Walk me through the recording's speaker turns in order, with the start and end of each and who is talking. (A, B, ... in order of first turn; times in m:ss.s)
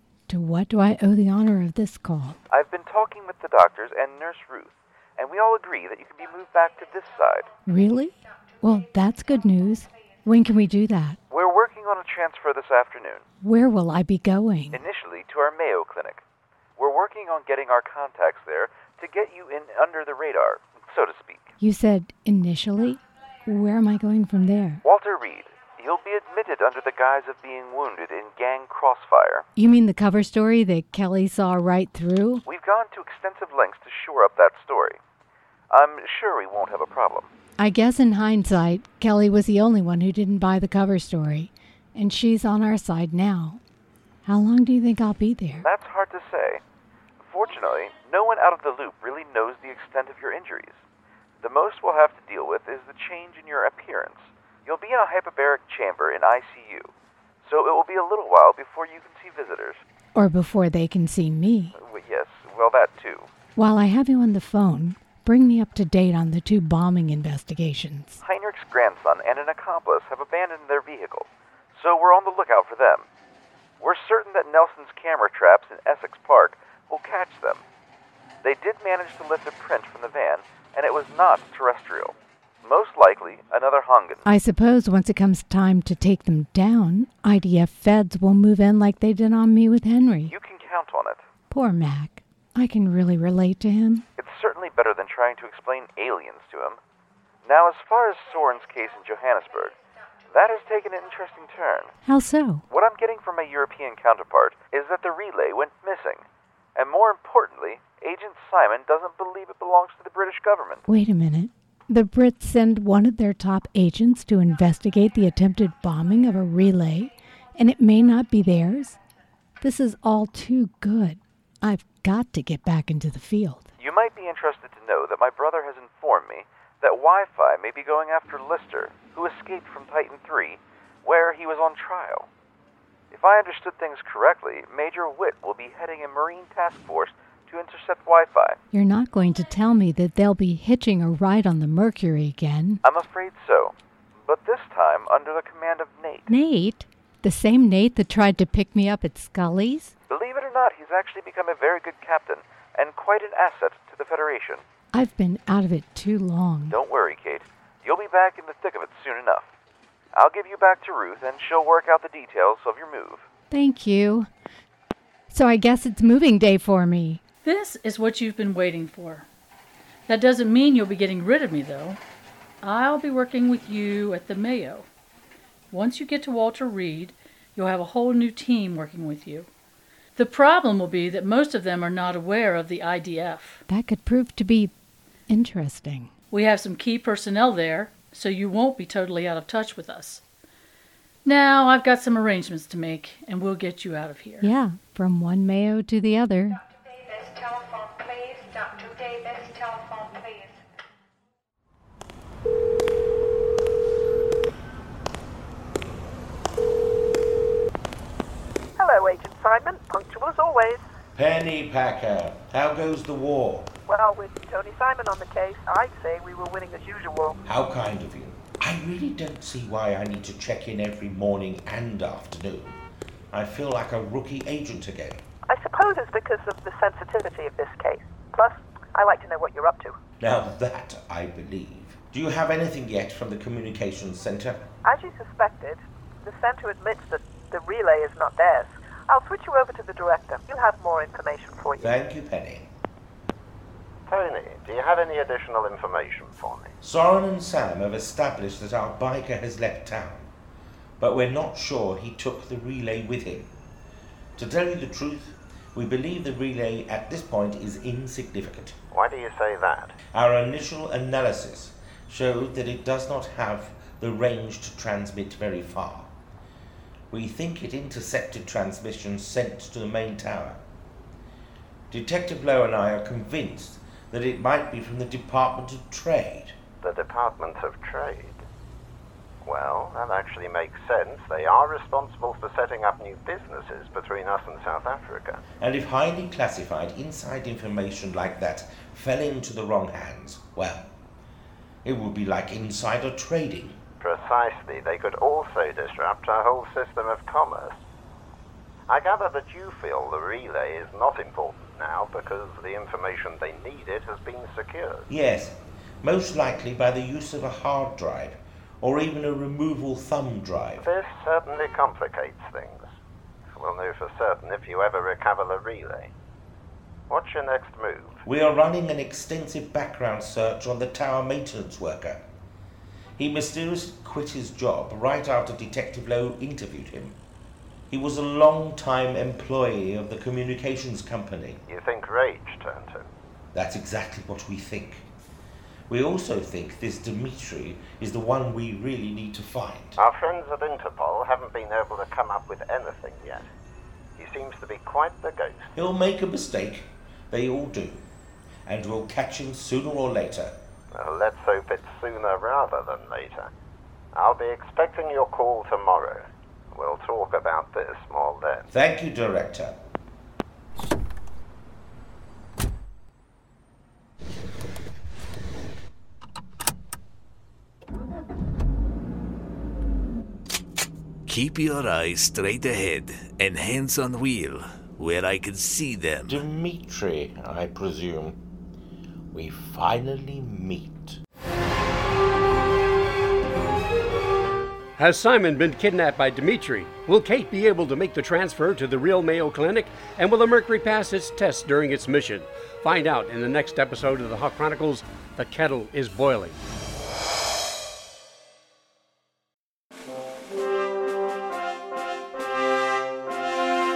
0:00.3-0:02.4 A
0:02.5-0:07.5 B
0:07.6-0:11.2 A
0:11.3-0:13.2 B
0:13.4-0:14.8 A
0:14.7-0:16.2 B
0:16.8-0:21.5 B
0:21.6-0:24.8 A
0:24.8-0:29.5 B
0:29.6-0:32.4 A
0:32.4-0:35.0 B
0:35.7-0:37.3 B
0:37.6-0:43.6 A
0:44.2-0:45.7 A
0:45.6-0:46.6 B
0:47.2-0:50.8 B
0:51.4-0:59.8 B
1:00.1-1:01.7 A
1:01.7-1:03.3 B
1:03.6-1:08.2 A
1:08.2-1:13.1 B
1:13.8-1:17.6 B
1:18.4-1:24.2 B
1:24.2-1:30.3 A
1:30.3-1:31.3 B
1:31.5-1:34.1 A
1:34.2-1:36.8 B
1:37.4-1:39.8 B
1:40.3-1:41.9 B
1:42.0-1:42.6 A
1:42.7-1:46.2 B
1:46.8-1:50.9 B
1:50.9-1:59.0 A
1:59.6-2:03.7 A
2:03.8-2:12.3 B
2:13.1-2:18.6 B
2:18.7-2:22.8 A
2:22.8-2:26.3 B
2:26.3-2:29.9 A
2:30.1-2:34.6 B
2:34.9-2:36.8 A
2:36.7-2:39.5 B
2:40.1-2:43.3 B
2:43.5-2:44.3 A
2:45.3-2:47.2 A
2:47.4-2:49.3 C
2:50.1-2:52.0 C
2:52.6-2:54.9 C
2:55.7-2:59.5 C
3:00.2-3:03.6 C
3:03.7-3:04.7 A
3:05.3-3:06.1 A
3:06.3-3:10.2 C
3:11.2-3:14.5 C
3:14.4-3:16.6 A
3:28.8-3:30.8 D
3:31.2-3:33.7 E
3:33.9-3:37.4 D
3:37.4-3:42.8 E
3:43.3-3:45.2 E
3:45.5-3:50.0 D
3:50.2-3:54.6 E
3:54.8-4:01.9 D
4:01.8-4:02.7 E
4:04.1-4:06.7 F
4:06.8-4:10.3 E
4:11.0-4:13.5 E
4:14.4-4:18.8 E
4:18.9-4:20.0 F
4:20.0-4:26.1 E
4:27.1-4:30.6 E
4:31.9-4:36.6 E
4:36.8-4:38.4 F
4:39.4-4:45.4 F
4:45.6-4:50.9 E
4:51.8-4:53.8 E
4:54.0-4:57.8 F
4:58.9-5:05.1 F
5:05.1-5:10.9 E
5:10.8-5:12.9 F
5:13.6-5:16.1 F
5:17.1-5:18.2 F
5:18.2-5:22.2 E
5:23.2-5:27.2 E
5:27.9-5:31.6 E
5:31.7-5:33.1 F
5:33.5-5:35.1 E
5:35.9-5:40.0 E
5:40.0-5:43.5 F
5:44.2-5:45.7 F
5:45.8-5:48.0 E
5:48.6-5:50.6 E
5:50.9-5:53.5 F
5:54.1-5:58.7 F
5:58.7-5:59.8 E
6:11.3-6:16.4 G
6:16.3-6:18.4 E
6:19.3-6:21.2 E
6:25.0-6:36.6 H